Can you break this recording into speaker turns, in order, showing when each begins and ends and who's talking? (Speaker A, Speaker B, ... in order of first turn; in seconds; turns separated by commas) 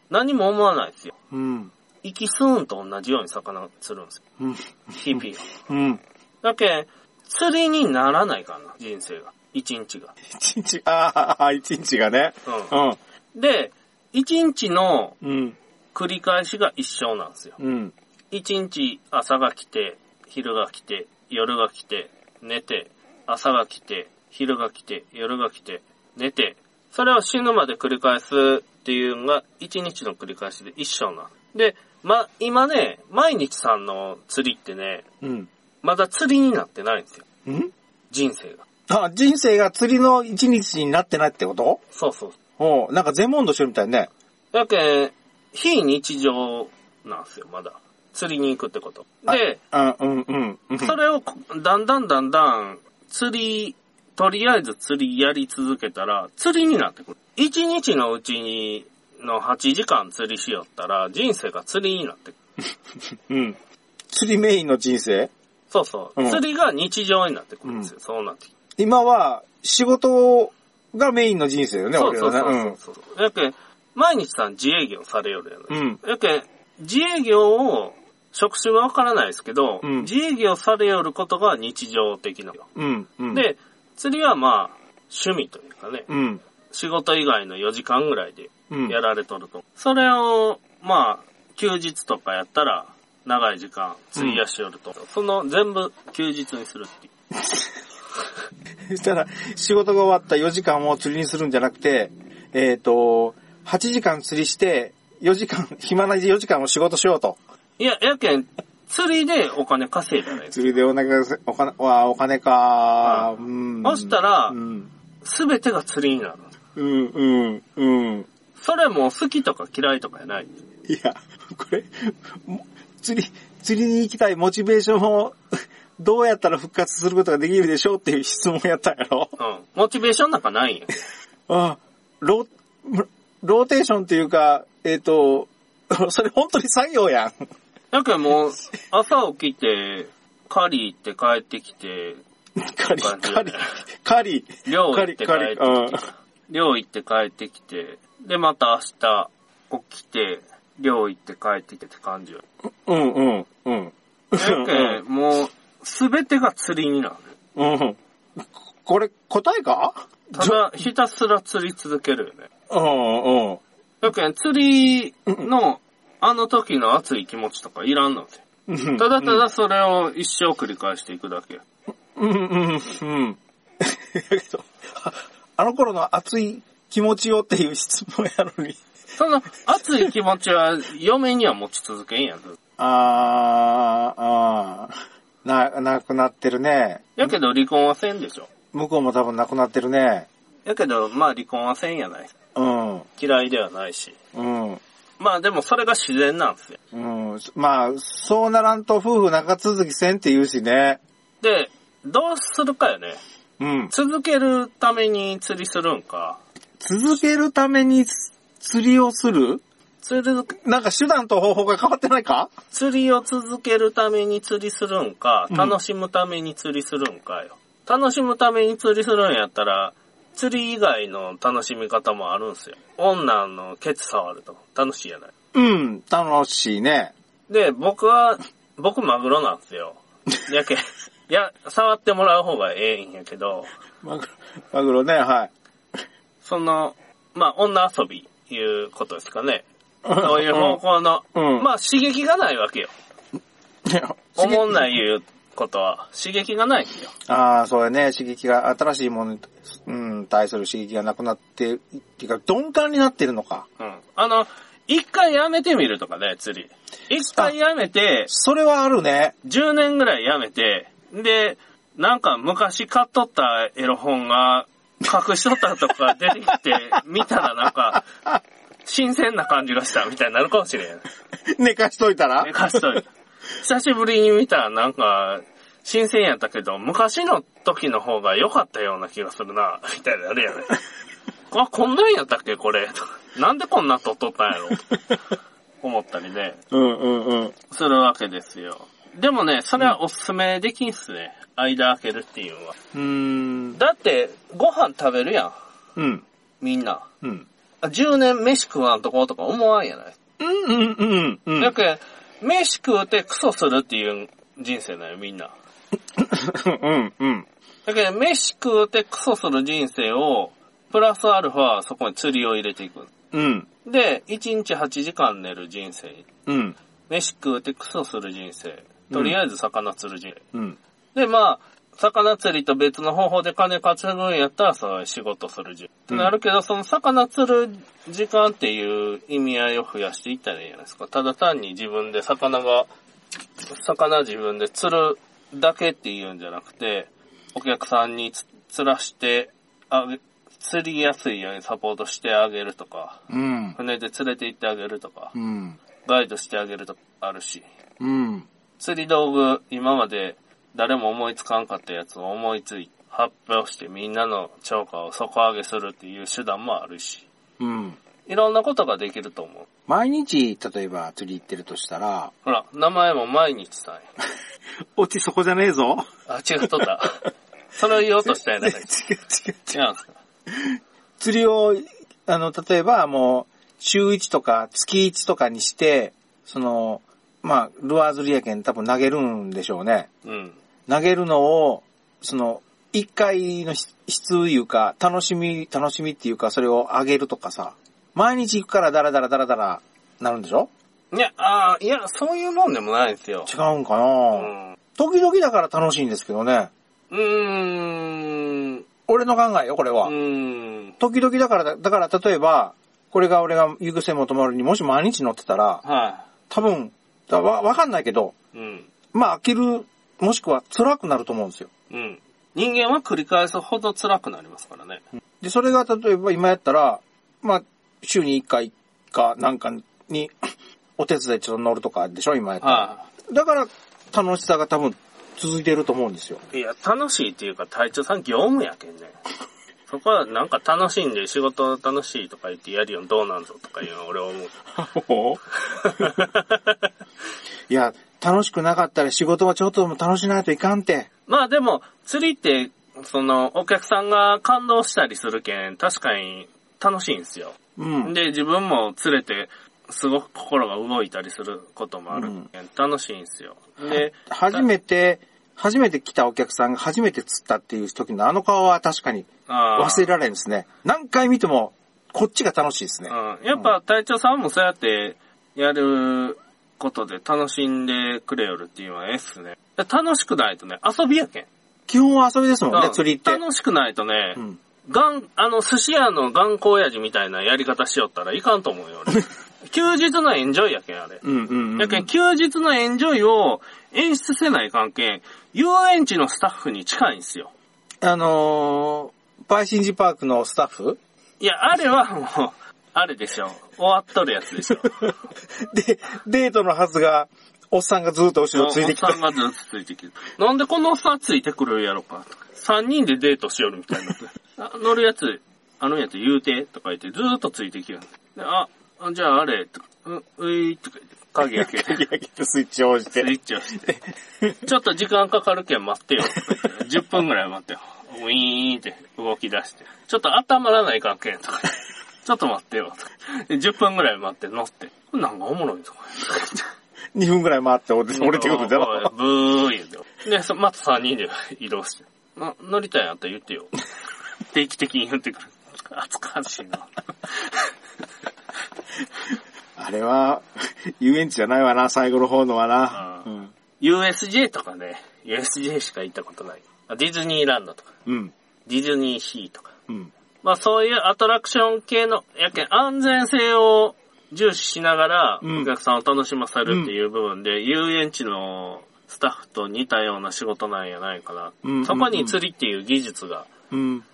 Speaker A: 0.1-1.1, Speaker B: 1.3-1.7, Speaker A: 2.0-4.2, Speaker B: 4.4-6.0, Speaker A: 5.0-5.5, Speaker A: 6.4-10.1, Speaker B: 10.3-13.0, Speaker A: 12.4-12.7, Speaker A: 13.3-15.2, Speaker B: 15.2-15.6, Speaker A: 15.9-17.6, Speaker B: 17.6-17.9, Speaker A: 18.3-35.0, Speaker B: 35.2-35.5, Speaker A: 35.8-37.2, Speaker B: 37.5-37.7, Speaker A: 38.1-38.6, Speaker B: 38.9-41.8, Speaker A: 41.9-42.4, Speaker B: 42.6-44.1, Speaker A: 44.5-49.6, Speaker B: 49.3-51.0, Speaker A: 50.8-62.4, Speaker B: 63.1-63.6, Speaker B: 64.1-65.3, Speaker A: 65.7-68.5, Speaker B: 66.2-66.4, Speaker B: 67.7-67.9, Speaker B: 68.8-72.8, Speaker A: 71.9-82.7, Speaker B: 75.7-76.0, Speaker B: 79.8-80.1, Speaker B: 82.8-83.4, Speaker A: 83.3-86.1, Speaker B: 86.1-86.4, Speaker A: 86.7-97.1, Speaker B: 88.7-89.0, Speaker B: 94.2-94.4, Speaker B: 97.4-97.7, Speaker B: 98.9-107.4, Speaker A: 107.8-110.8, Speaker B: 110.5-114.9, Speaker A: 113.0-113.3, Speaker A: 113.8-114.5, Speaker A: 115.2-116.5, Speaker B: 116.8-118.3, Speaker A: 118.5-120.6, Speaker B: 120.9-125.4, Speaker B: 126.0-129.3, Speaker A: 129.4-131.0, Speaker B: 131.5-137.3, Speaker A: 137.9-142.2, Speaker B: 142.6-146.0, Speaker A: 142.9-143.8, Speaker A: 144.7-152.4, Speaker B: 152.8-155.0, Speaker A: 154.3-157.3, Speaker B: 157.6-160.6, Speaker A: 160.3-162.5, Speaker B: 162.7-163.6, Speaker A: 164.0-168.4, Speaker B: 168.7-169.4, Speaker A: 168.9-171.6, Speaker B: 172.2-178.8, Speaker A: 179.2-182.6, Speaker B: 182.8-187.3, Speaker A: 187.2-188.5, Speaker B: 188.7-190.3, Speaker A: 190.7-192.3, Speaker B: 192.5-193.1, Speaker A: 193.2-194.2, Speaker B: 194.3-194.8, Speaker A: 195.2-196.8, Speaker B: 196.9-201.0, Speaker A: 201.4-203.2, Speaker B: 203.6-203.9, Speaker A: 203.9-206.4, Speaker B: 206.8-209.6, Speaker A: 210.0-210.5, Speaker B: 210.5-212.5, Speaker A: 212.7-225.3, Speaker B: 215.5-215.8, Speaker B: 225.5-227.1, Speaker A: 227.5-233.7, Speaker B: 234.0-235.5, Speaker A: 236.4-242.9, Speaker B: 240.0-240.8, Speaker B: 241.3-241.7, Speaker B: 243.8-245.0, Speaker A: 244.4-247.1, Speaker B: 247.3-253.6, Speaker A: 253.8-258.3, Speaker B: 258.3-259.3, Speaker A: 259.4-268.0, Speaker B: 267.6-268.4, Speaker A: 268.8-271.0, Speaker B: 271.5-272.9, Speaker A: 272.4-273.0, Speaker A: 273.6-280.8, Speaker A: 281.5-285.0, Speaker A: 285.8-286.6, Speaker B: 286.7-287.5, Speaker A: 287.7-292.7, Speaker B: 292.9-293.8, Speaker A: 293.7-295.5, Speaker B: 295.9-296.2, Speaker A: 296.6-297.1, Speaker A: 297.8-300.1, Speaker B: 300.4-301.7, Speaker A: 301.6-305.5, Speaker B: 306.1-307.4, Speaker A: 307.9-313.1, Speaker B: 313.3-313.7, Speaker A: 313.8-316.2, Speaker B: 316.5-316.8, Speaker A: 317.1-320.4, Speaker B: 319.1-319.4, Speaker A: 321.1-332.9, Speaker A: 333.7-343.2, Speaker B: 343.3-343.8, Speaker A: 343.7-345.3, Speaker B: 345.3-345.8, Speaker A: 346.0-347.6, Speaker B: 348.0-348.5, Speaker A: 348.8-357.2, Speaker B: 357.6-358.0, Speaker A: 358.2-359.7, Speaker B: 359.9-362.3, Speaker A: 362.4-364.1, Speaker B: 364.9-366.1, Speaker A: 366.3-368.9, Speaker B: 368.2-369.8, Speaker A: 369.7-370.1, Speaker B: 370.5-380.1, Speaker A: 380.2-380.6, Speaker B: 380.9-390.7, Speaker A: 391.1-393.5, Speaker B: 393.5-396.7, Speaker A: 394.3-394.8, Speaker A: 397.1-398.8, Speaker B: 399.1-400.1, Speaker A: 400.0-400.9, Speaker B: 401.0-405.8, Speaker A: 405.8-406.2, Speaker B: 406.5-408.3, Speaker A: 408.5-408.9, Speaker B: 409.1-411.7, Speaker A: 411.9-415.0, Speaker B: 415.4-420.4, Speaker B: 421.0-426.4, Speaker A: 422.6-423.0, Speaker A: 426.5-429.1, Speaker A: 429.9-434.6, Speaker B: 434.7-436.3, Speaker A: 435.8-436.6, Speaker B: 437.7-441.1, Speaker A: 441.3-454.7, Speaker B: 447.8-448.1, Speaker B: 452.1-452.4, Speaker B: 453.9-463.7, Speaker A: 459.5-460.1, Speaker A: 463.1-471.5, Speaker B: 471.9-473.4, Speaker A: 472.7-481.2, Speaker B: 481.2-482.1, Speaker A: 481.8-487.5, Speaker B: 488.0-491.0, Speaker A: 491.4-495.1, Speaker B: 495.6-499.3, Speaker A: 498.5-512.0, Speaker B: 511.4-514.7, Speaker A: 513.1-513.8, Speaker A: 514.6-526.7, Speaker B: 516.3-516.6, Speaker B: 527.1-529.1, Speaker A: 528.1-533.8, Speaker A: 534.5-537.6, Speaker B: 539.8-543.5, Speaker A: 542.9-543.2, Speaker A: 543.8-547.9, Speaker B: 548.0-548.3, Speaker A: 548.6-549.7, Speaker A: 550.4-563.5, Speaker B: 555.4-555.7, Speaker B: 556.6-556.9, Speaker B: 561.6-562.4, Speaker B: 563.7-564.0